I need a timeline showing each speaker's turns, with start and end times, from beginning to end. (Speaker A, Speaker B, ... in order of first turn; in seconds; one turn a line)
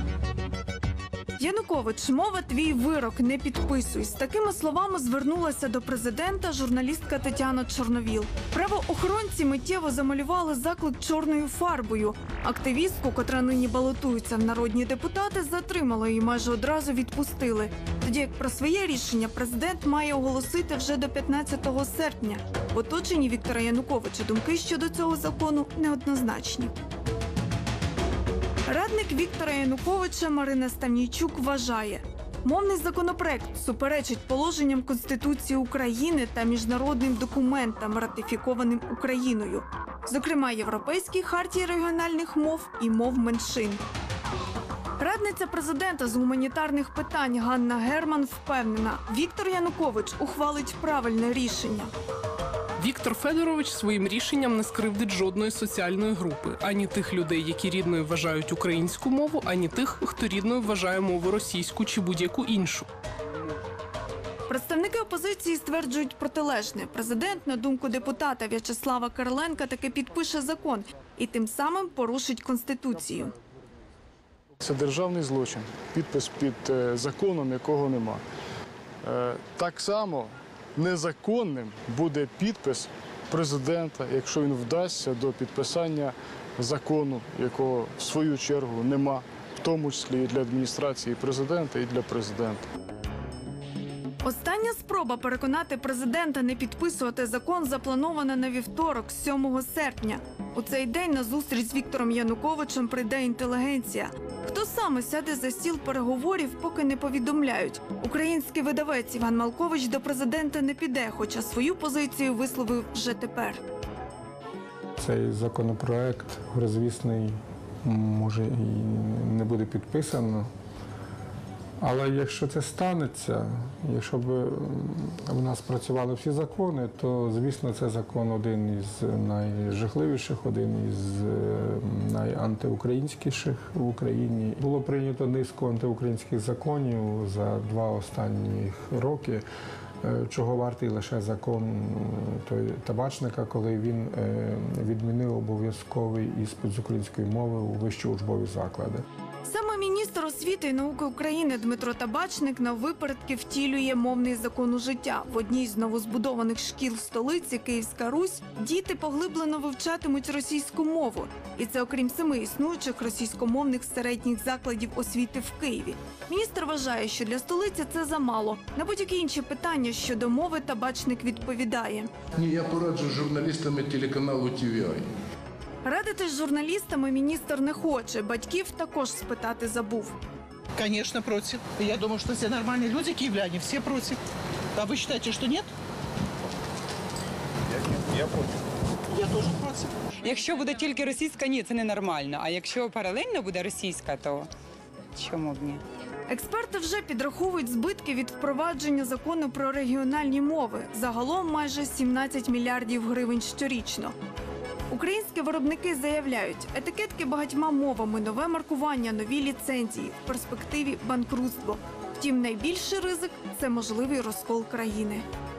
Speaker A: 1.4-26.7
Speaker A: 28.6-43.8
Speaker A: 45.0-51.9
Speaker B: 52.8-62.9
Speaker A: 64.5-73.3
Speaker C: 74.6-78.2
Speaker C: 79.1-80.2
Speaker C: 80.8-92.6
Speaker A: 94.2-113.6
Speaker D: 115.0-120.5
Speaker D: 121.8-139.4
Speaker D: 140.0-149.0
Speaker A: 149.4-172.1
Speaker E: 172.3-175.0
Speaker A: 175.8-180.1
Speaker F: 180.8-184.2
Speaker F: 184.8-185.7
Speaker F: 189.1-189.9
Speaker G: 190.2-194.5
Speaker G: 195.1-195.8
Speaker A: 196.3-204.1
Speaker A: 204.9-215.2